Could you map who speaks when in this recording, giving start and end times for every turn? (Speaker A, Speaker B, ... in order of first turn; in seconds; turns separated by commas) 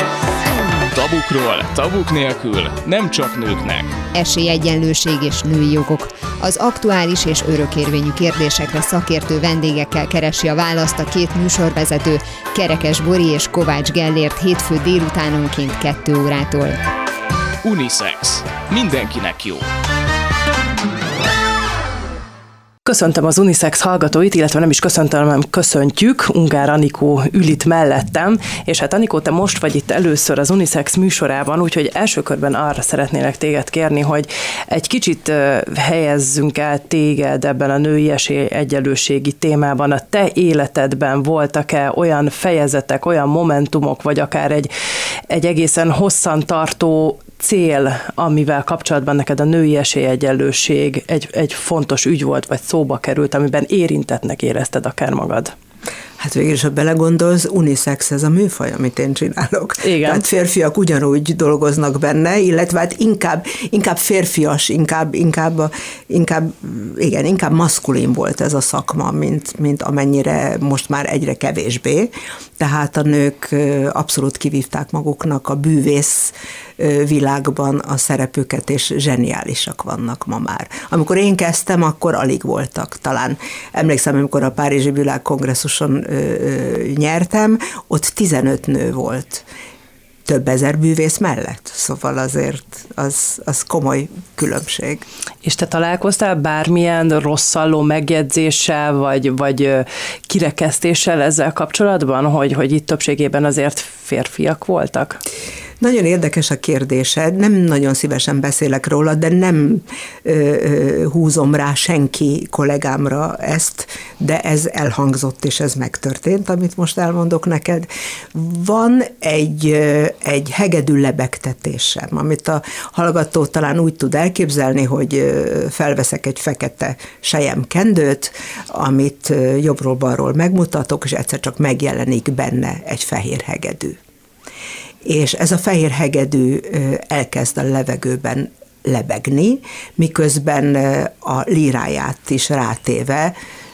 Speaker A: 0.9-3.9, Speaker B: 4.1-16.8, Speaker A: 17.6-19.7, Speaker C: 22.9-44.7, Speaker C: 45.3-55.5, Speaker D: 56.2-89.5, Speaker C: 59.8-60.2, Speaker D: 90.3-95.1, Speaker C: 95.4-105.2, Speaker D: 105.8-134.0, Speaker D: 135.1-143.3